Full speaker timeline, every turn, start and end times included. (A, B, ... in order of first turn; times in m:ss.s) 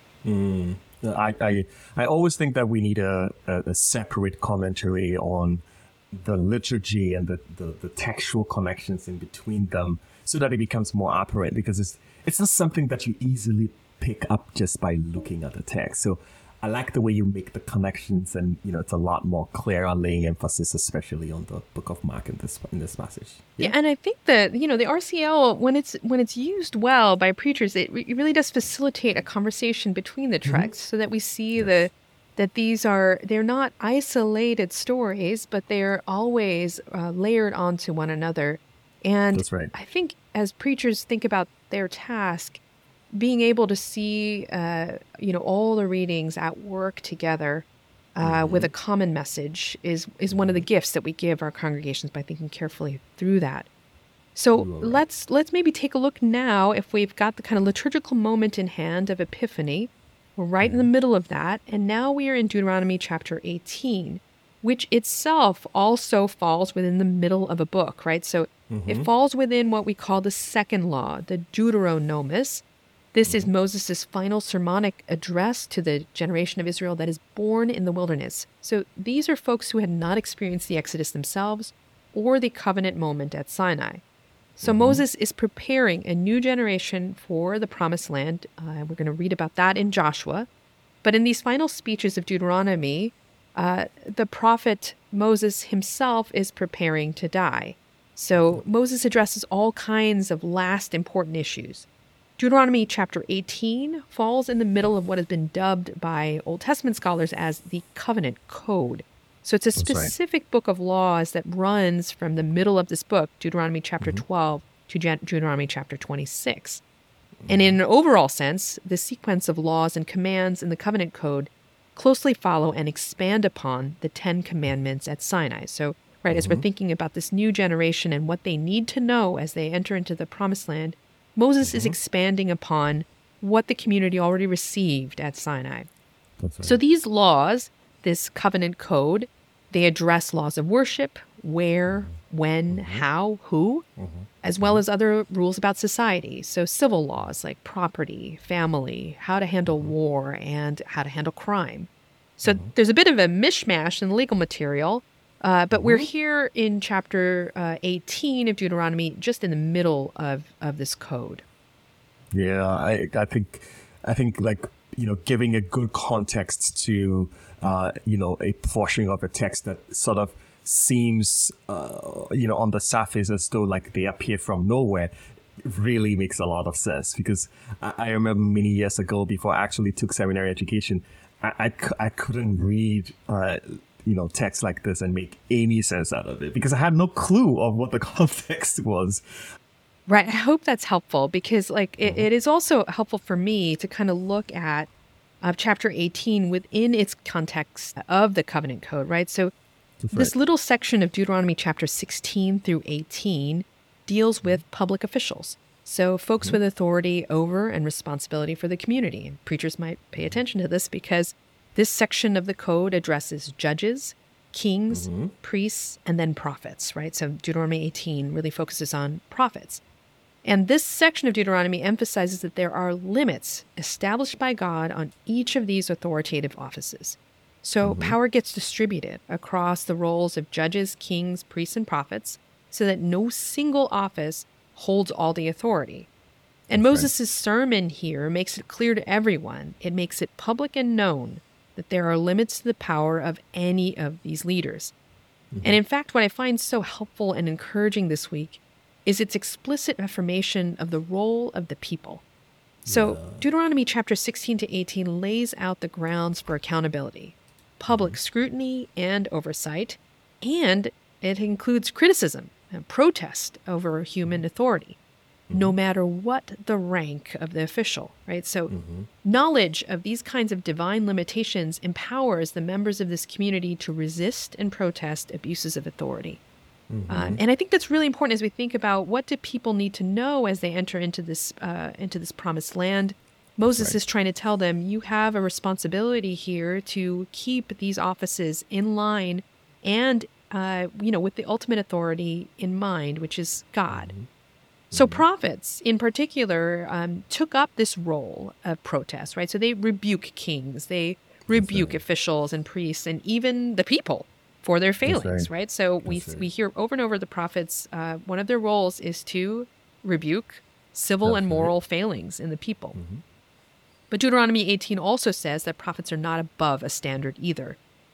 0:00.2-0:23.8 A
0:23.6-0:42.6 B
0:30.4-0:30.7 A
0:31.6-0:31.8 A
0:39.3-0:39.7 A
0:43.1-0:53.7 B
0:48.2-0:48.7 A
0:50.3-0:50.6 A
0:54.3-1:24.0 B
0:54.5-0:55.0 A
1:00.6-1:00.9 A
1:08.7-1:09.1 A
1:13.2-1:13.5 A
1:24.6-1:30.5 B
1:24.6-1:25.0 A
1:31.0-1:41.9 B
1:38.3-1:38.6 A
1:42.4-1:56.8 B
1:49.8-1:50.1 A
1:57.4-1:57.8 A
1:57.5-2:15.9 B
2:06.3-2:06.6 A
2:11.6-2:12.0 A
2:16.4-2:16.8 A
2:16.6-2:23.8 B
2:21.9-2:22.1 A
2:22.7-2:23.0 A
2:24.0-2:24.8 A
2:24.4-2:41.4 B
2:29.6-2:29.9 A
2:32.4-2:32.7 A
2:35.7-2:36.1 A
2:42.3-2:55.1 A
2:55.6-3:09.2 A
3:10.1-3:14.9 B
3:12.0-3:12.3 A
3:15.4-3:19.5 B
3:20.0-3:20.3 A
3:20.1-3:39.8 B
3:34.9-3:35.3 A
3:40.4-3:56.1 B
3:47.8-3:48.2 A
3:56.7-4:04.9 B
3:56.7-3:57.1 A
4:05.5-4:05.8 A
4:05.6-4:12.2 B
4:12.8-4:13.5 A
4:12.9-4:25.0 B
4:17.9-4:18.2 A
4:25.5-4:25.8 A
4:25.5-4:28.7 B
4:28.7-4:29.1 A
4:29.2-4:36.4 B
4:36.9-4:37.4 A
4:37.1-4:54.1 B
4:43.6-4:44.0 A
4:53.9-4:54.3 A
4:54.9-4:55.2 A
4:54.9-5:13.0 B
5:01.5-5:02.0 A
5:05.0-5:05.5 A
5:06.0-5:06.5 A
5:11.2-5:11.7 A
5:12.9-5:13.2 A
5:14.1-5:17.8 B